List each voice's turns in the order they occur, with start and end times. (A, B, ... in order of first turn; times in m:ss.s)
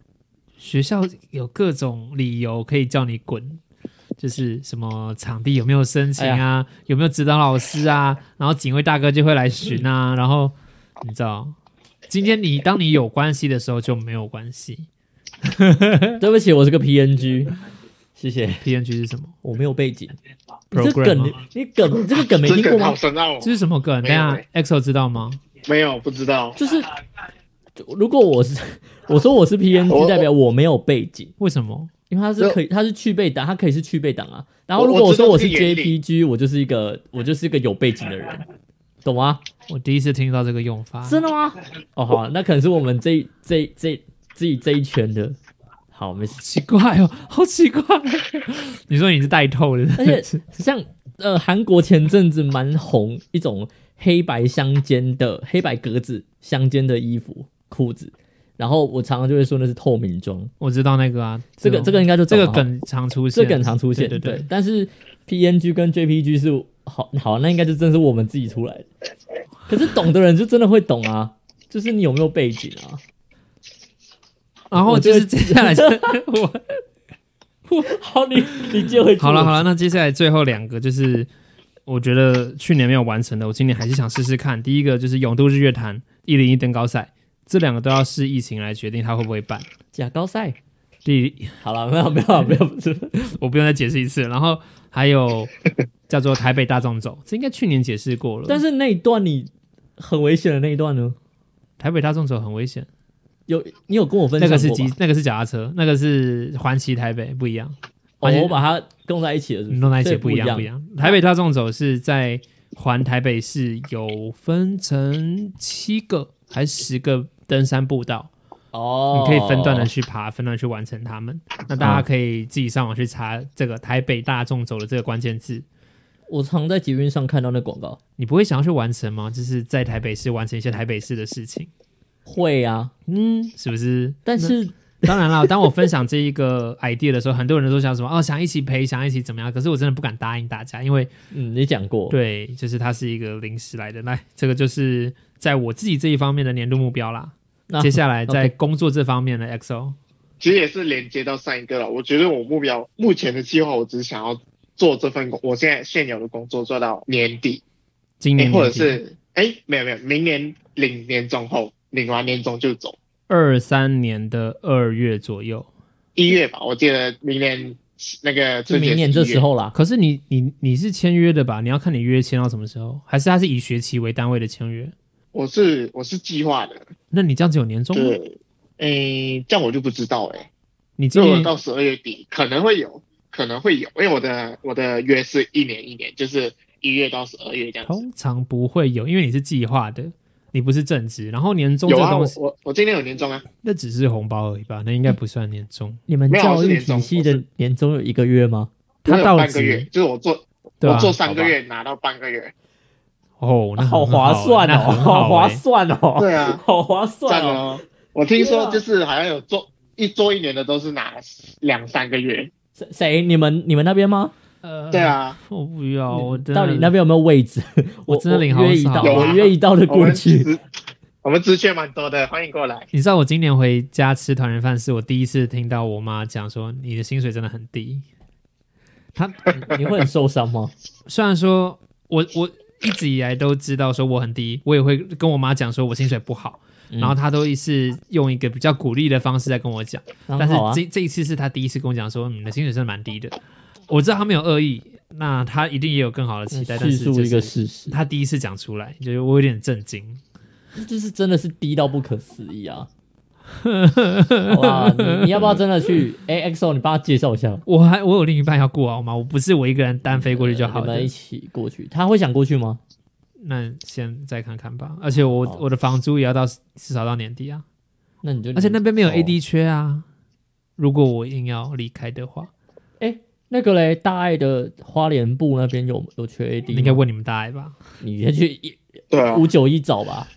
0:00.6-0:03.6 A
0:04.2-0:11.5 A
0:06.2-0:06.4 B
0:12.1-0:14.9 A
0:15.4-0:16.2 A
0:16.2-0:17.5 B
0:18.2-0:18.6 B
0:18.6-0:19.3 A
0:19.4-0:20.2 B
0:20.7-0:21.4 A
0:20.7-0:23.0 B
0:22.1-0:24.4 C
0:23.4-0:25.4 A
0:25.6-0:26.6 C
0:26.6-0:26.9 B
0:27.8-0:31.3 B
0:29.9-0:30.3 C
0:31.4-0:31.9 A
0:32.1-0:38.4 B
0:34.8-0:36.0 C
0:39.0-0:39.4 B
0:39.7-0:41.2 A
0:41.0-0:45.4 B
0:45.9-0:46.4 B
0:46.4-0:50.4 A
0:50.0-1:00.5 B
1:00.6-1:04.4 A
1:01.6-1:02.7 B
1:03.3-1:08.9 B
1:09.7-1:13.0 B
1:14.7-1:16.8 A
1:14.8-1:16.2 B
1:17.7-1:19.6 B
1:18.6-1:21.3 A
1:21.9-1:29.6 A
1:29.9-1:30.6 B
1:31.0-1:31.6 A
1:31.6-1:33.3 B
1:33.4-1:35.5 A
1:36.1-1:38.6 A
1:38.5-1:41.2 B
1:41.8-1:42.9 A
1:43.5-1:44.9 B
1:44.4-1:48.6 A
1:48.2-1:51.2 B
1:49.7-1:58.3 A
1:58.7-1:59.9 B
1:59.1-2:05.6 A
2:01.8-2:02.0 B
2:06.3-2:08.0 B
2:08.2-2:11.7 A
2:12.2-2:12.9 B
2:13.1-2:21.1 A
2:14.2-2:15.5 B
2:21.3-2:22.2 B
2:22.1-2:30.0 A
2:27.7-2:28.5 B
2:30.4-2:37.6 C
2:38.2-2:39.0 A
2:38.4-2:43.0 C
2:43.3-2:45.7 A
2:46.2-2:49.4 C
2:48.7-2:49.7 B
2:49.7-2:54.9 A
2:55.3-2:56.9 C
2:57.1-2:58.2 A
2:57.9-3:00.5 C
3:01.0-3:01.5 A
3:01.1-3:08.0 C
3:07.9-3:12.4 A
3:11.8-3:13.5 C
3:13.6-3:16.0 A
3:16.1-3:18.7 B
3:16.3-3:17.4 C
3:19.0-3:19.9 A
3:19.0-3:22.5 C
3:20.8-3:21.5 A
3:23.4-3:25.6 A
3:23.8-3:27.8 B
3:26.2-3:26.6 C
3:27.3-3:32.5 C
3:28.4-3:28.8 B
3:32.8-3:34.3 B
3:34.6-3:36.9 A
3:34.9-3:35.4 C
3:36.1-3:40.5 B
3:38.1-3:39.4 A
3:39.0-3:40.6 C
3:41.2-3:42.9 C
3:42.9-3:48.0 A
3:49.2-3:49.5 A
3:49.5-3:50.7 B
3:51.1-4:03.4 A
3:56.9-3:57.2 B
4:00.3-4:00.8 B
4:03.9-4:10.2 A
4:06.5-4:08.0 B
4:10.8-4:12.9 B
4:13.6-4:15.6 A
4:14.5-4:17.6 B
4:17.6-4:21.1 A
4:20.1-4:22.8 B
4:23.4-4:27.6 A
4:25.2-4:25.6 B
4:28.2-4:29.4 B
4:28.5-4:30.0 A
4:30.8-4:32.5 A
4:33.0-4:37.0 B
4:36.7-4:37.8 A
4:38.0-4:40.3 B
4:39.1-4:39.4 C